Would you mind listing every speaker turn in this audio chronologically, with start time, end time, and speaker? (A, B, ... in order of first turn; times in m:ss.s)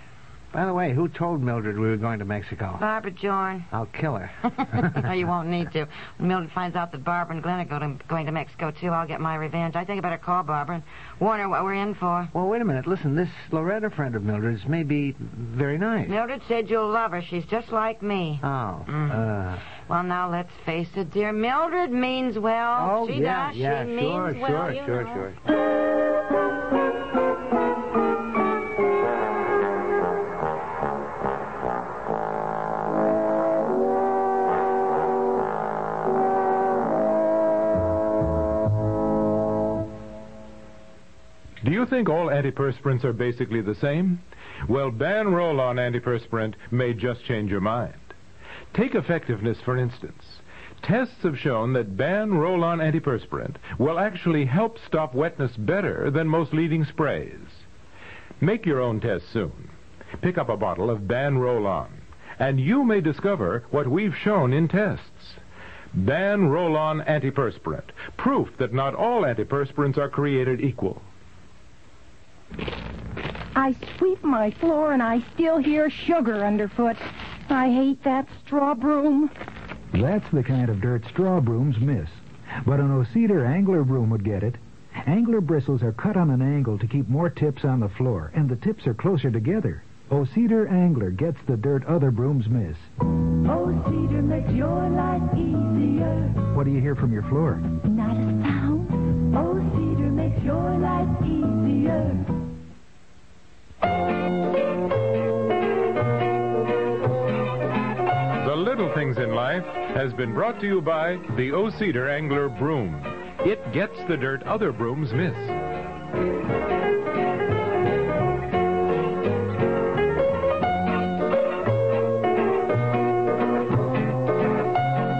0:00.5-0:02.8 A
0:02.8-0:03.7 B
0:03.7-0:05.1 A
0:04.4-0:12.3 B
0:12.3-0:16.2 A
0:16.0-0:25.2 B
0:18.4-0:19.6 A
0:22.7-0:25.4 A
0:41.6-0:48.1 C
0:48.7-0:57.6 C
0:58.4-1:05.4 C
1:06.0-1:11.0 C
1:13.5-1:19.3 D
1:20.0-1:22.1 E
1:22.7-1:32.8 E
1:33.4-1:36.4 D
1:36.5-1:37.7 E
1:37.7-1:42.2 D
1:48.4-1:55.6 C